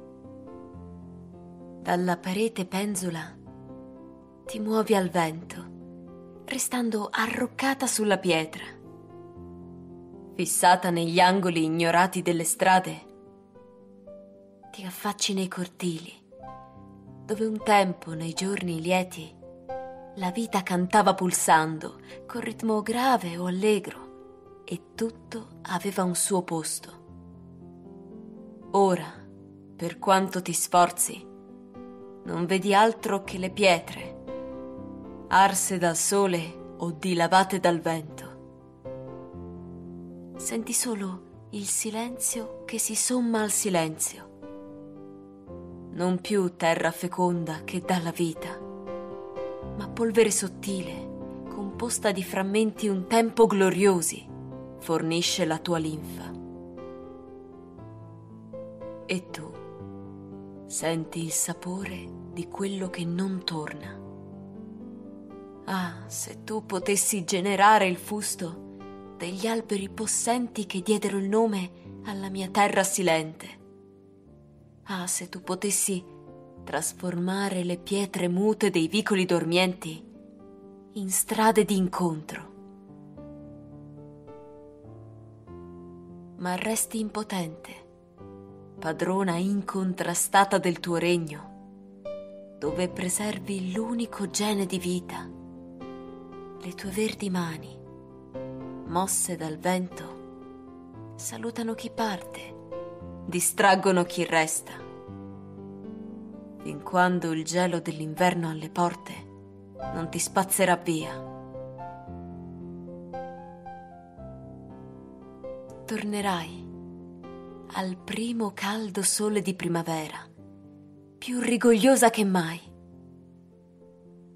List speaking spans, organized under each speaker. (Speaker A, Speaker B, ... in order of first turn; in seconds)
Speaker A: 1.8-3.4, 4.5-5.7, 6.5-8.7, 10.3-13.1, 14.7-16.2, 17.3-19.4, 20.1-24.1, 24.7-27.0, 28.7-29.2, 29.8-31.2, 32.2-34.2, 35.3-38.3, 40.4-44.3, 45.9-48.6, 49.7-56.4, 59.1-59.6, 60.7-64.0, 65.7-68.6, 69.2-73.6, 74.8-76.1, 76.6-80.0, 80.9-82.5, 86.4-87.8, 88.8-91.5, 92.6-95.3, 96.6-97.8, 98.8-100.2, 101.2-102.6, 103.2-104.8, 106.6-109.3, 109.9-111.2, 115.8-116.7, 117.7-120.3, 121.2-122.7